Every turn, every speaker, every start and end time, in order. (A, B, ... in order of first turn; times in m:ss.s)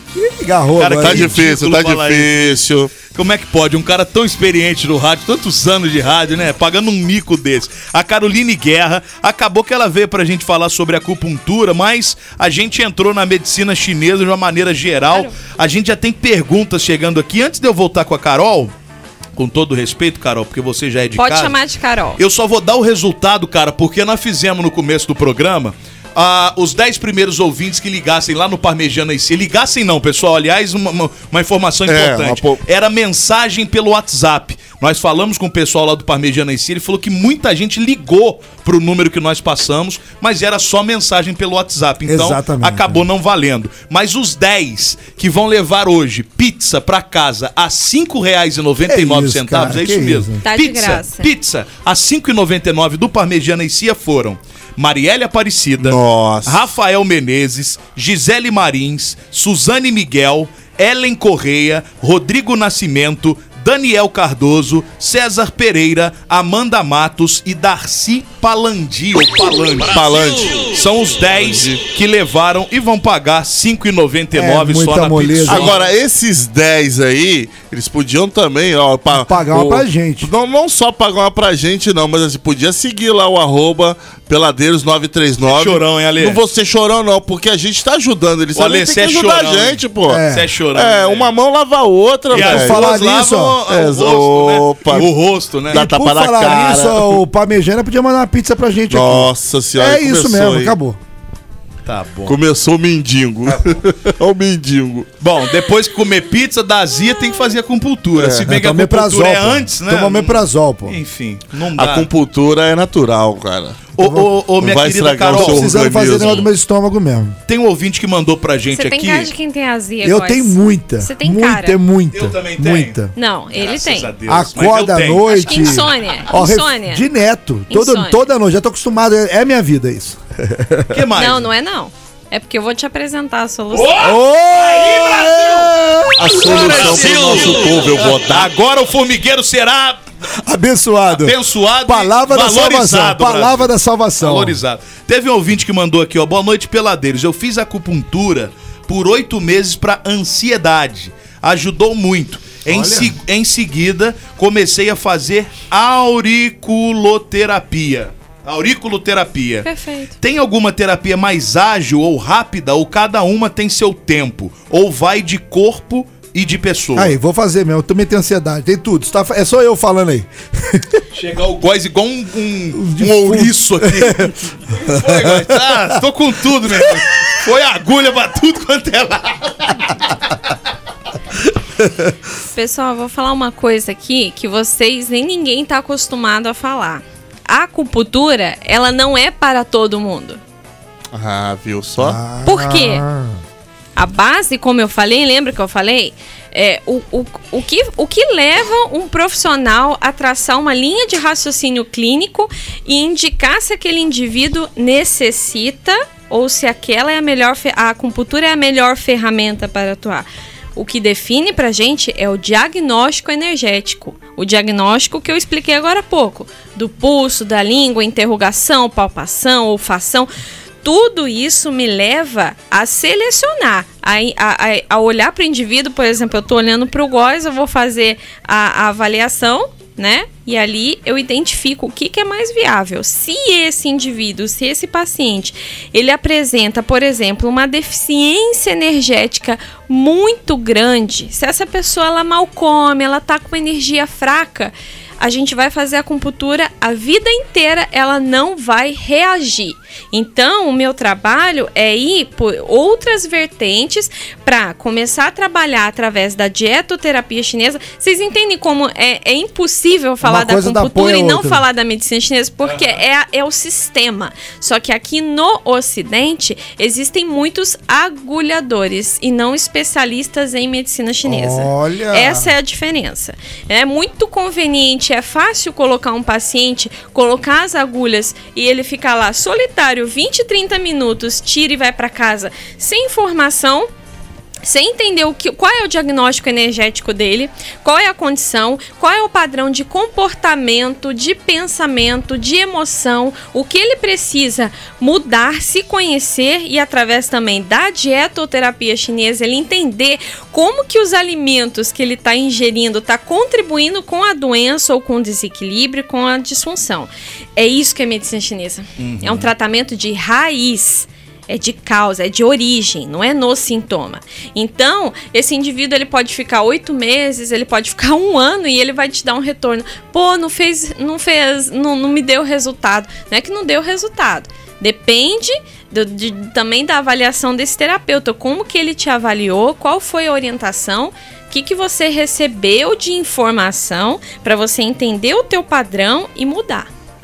0:00.2-0:01.4 A
0:00.8-0:18.7 B
0:01.0-0:03.0 C
0:19.4-0:21.6 B
0:21.2-0:22.2 D
0:22.2-1:10.1 B
0:31.9-0:32.6 C
0:42.1-0:43.0 A
0:48.9-0:50.4 A
0:50.4-0:51.3 D
0:55.8-0:56.6 C
1:09.8-1:11.8 C
1:10.6-1:15.9 B
1:14.3-1:15.8 A
1:15.5-1:33.0 C
1:19.1-1:20.3 A
1:25.4-1:26.4 B
1:28.6-1:31.3 B
1:30.1-1:30.5 A
1:32.3-1:33.6 A
1:32.3-1:35.8 B
1:33.7-1:35.1 C
1:35.7-1:37.2 C
1:35.7-1:41.0 A
1:38.9-1:40.7 C
1:41.8-1:42.4 B
1:42.3-1:45.1 C
1:45.2-1:52.1 B
1:48.2-1:48.5 C
1:48.4-1:51.0 A
1:51.8-1:53.8 C
1:54.0-1:56.4 B
1:54.0-1:54.3 A
1:54.6-1:56.5 C
1:55.3-1:57.4 A
1:57.5-1:59.3 B
1:58.7-2:01.8 D
2:00.0-2:03.1 A
2:02.1-2:03.0 B
2:03.2-2:04.1 D
2:03.5-2:05.8 B
2:04.3-2:11.0 A
2:05.3-2:07.1 D
2:07.7-2:08.2 D
2:10.9-2:11.5 B
2:11.2-2:14.1 D
2:13.7-2:15.7 B
2:14.0-2:16.9 A
2:16.2-2:18.5 C
2:16.3-2:20.0 B
2:20.4-2:24.6 A
2:21.1-2:39.7 B
2:32.7-2:33.2 A
2:39.6-2:40.2 D
2:40.2-2:47.2 B
2:47.0-2:51.0 A
2:51.1-3:00.3 B
2:52.8-2:54.3 A
2:54.9-2:55.6 A
3:02.5-3:10.4 D
3:11.1-3:12.2 C
3:12.0-3:13.4 A
3:12.4-3:13.0 D
3:14.0-3:40.3 D
3:40.8-4:43.9 D
4:20.2-4:21.6 A
4:31.2-4:32.5 A
4:44.6-5:36.9 D
5:09.0-5:09.5 B